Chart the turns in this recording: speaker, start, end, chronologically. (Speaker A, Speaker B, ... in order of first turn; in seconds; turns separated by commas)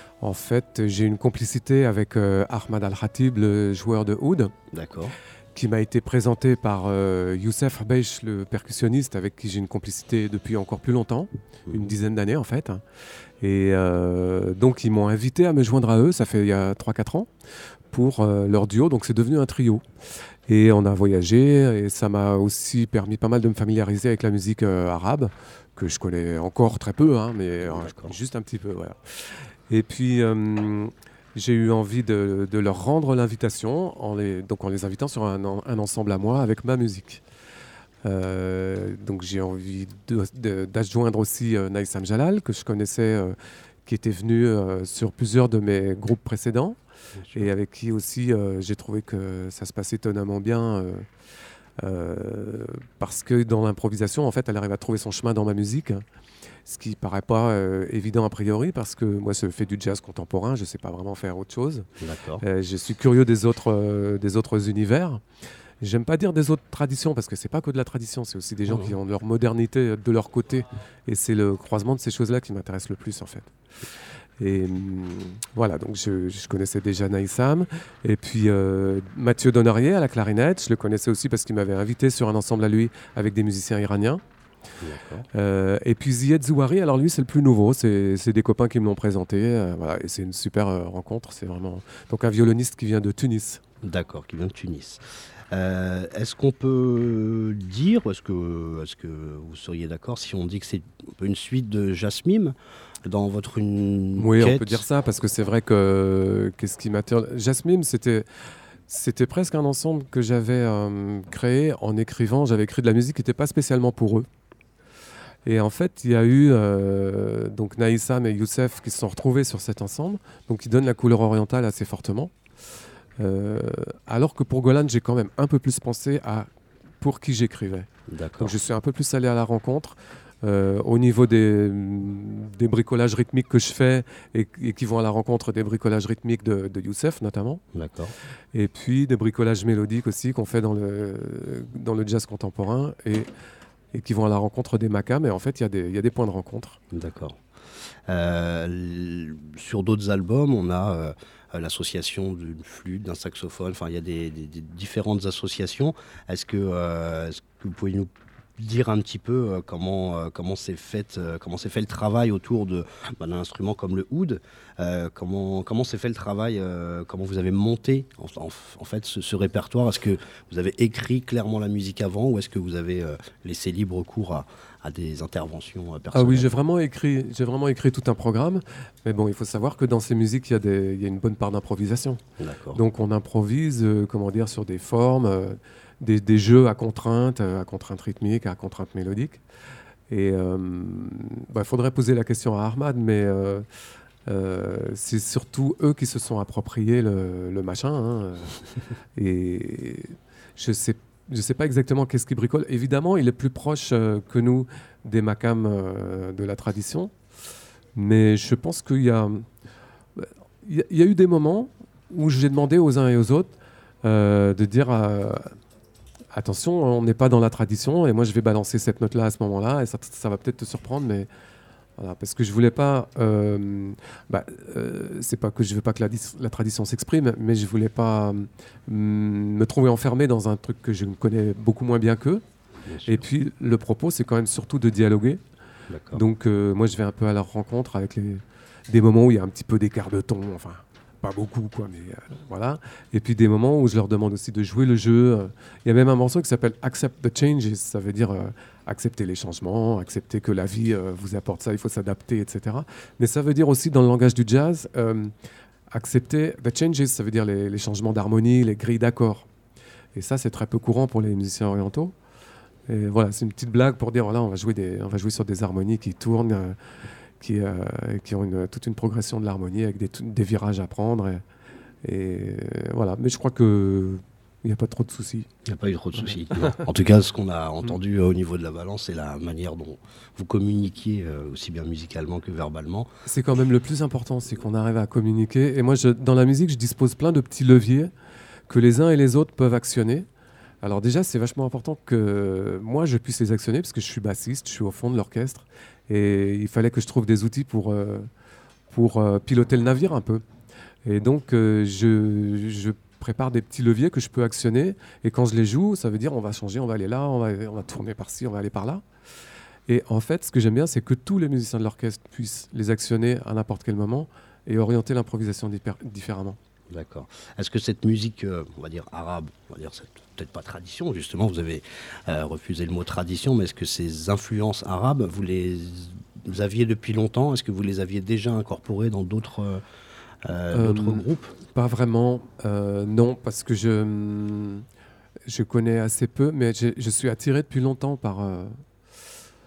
Speaker A: 0.2-4.5, Speaker B: 4.7-5.2, Speaker A: 5.5-12.8, Speaker A: 13.4-17.3, Speaker A: 17.9-19.9, Speaker A: 20.5-37.2, Speaker B: 27.6-28.2, Speaker A: 38.0-46.8, Speaker B: 47.2-47.5, Speaker A: 47.3-51.1, Speaker A: 51.8-56.0, Speaker A: 56.7-61.9, Speaker B: 62.0-62.4, Speaker A: 62.4-65.2, Speaker A: 65.8-73.5, Speaker B: 68.7-68.9, Speaker A: 74.4-84.2, Speaker B: 84.8-85.3, Speaker A: 85.3-93.6, Speaker B: 93.8-104.8, Speaker A: 104.2-108.3, Speaker A: 108.9-114.3, Speaker A: 115.5-122.3, Speaker A: 123.2-126.5, Speaker A: 127.0-137.6, Speaker B: 128.1-128.5, Speaker B: 137.7-138.1, Speaker A: 138.5-143.3, Speaker A: 143.9-146.8, Speaker B: 146.9-147.4, Speaker B: 148.1-176.5, Speaker A: 176.1-182.2, Speaker B: 182.4-182.8, Speaker A: 182.8-189.4, Speaker A: 190.1-193.7, Speaker A: 194.3-198.6, Speaker A: 199.2-207.1, Speaker A: 207.9-209.5, Speaker A: 210.2-215.6, Speaker A: 216.3-221.3, Speaker A: 222.0-232.4, Speaker B: 232.8-233.2, Speaker A: 233.1-235.4, Speaker B: 235.9-236.2, Speaker A: 236.1-255.3, Speaker A: 255.9-259.5, Speaker A: 260.1-262.1, Speaker A: 262.9-266.8, Speaker A: 267.4-271.4, Speaker A: 272.0-275.5, Speaker B: 275.6-283.1, Speaker A: 276.2-276.8, Speaker A: 283.3-288.1, Speaker A: 288.7-290.3, Speaker A: 290.8-298.3, Speaker A: 298.9-300.4, Speaker A: 301.1-309.0, Speaker A: 309.9-316.6, Speaker B: 316.9-329.8, Speaker B: 330.4-331.6, Speaker A: 330.7-334.9, Speaker A: 335.5-338.8